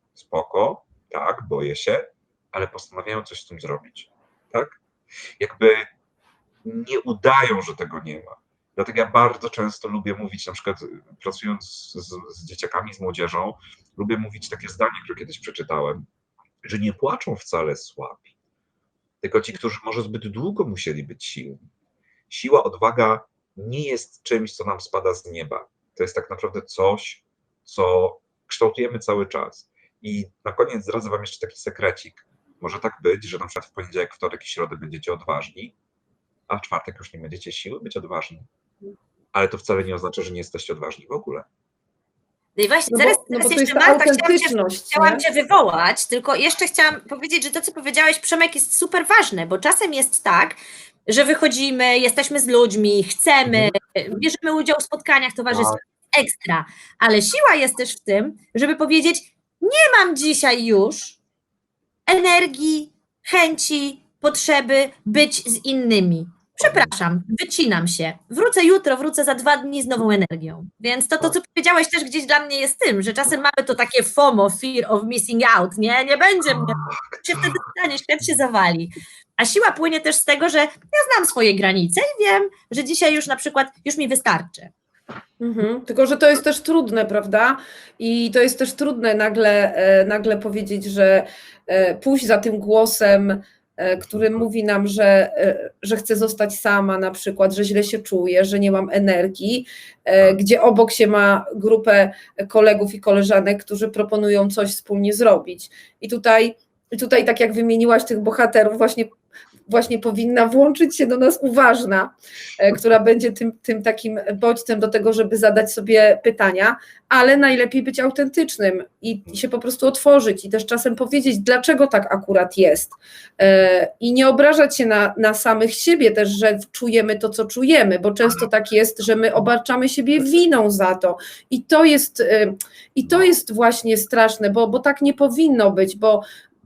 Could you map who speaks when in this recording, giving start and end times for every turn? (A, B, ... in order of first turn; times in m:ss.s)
0:00.2-0:04.8 A
0:05.4-0:05.9 A
0:06.6-0:16.0 A
0:16.6-0:18.3 A
0:19.2-0:21.6 A
0:22.3-0:35.7 A
0:36.5-0:38.5 A
0:39.3-0:41.5 A
0:42.6-1:01.2 B
0:42.9-0:45.2 C
0:55.5-0:55.8 A
1:02.1-1:24.7 B
1:06.6-1:06.9 A
1:16.5-1:17.6 A
1:25.4-1:49.1 C
1:49.7-2:16.2 C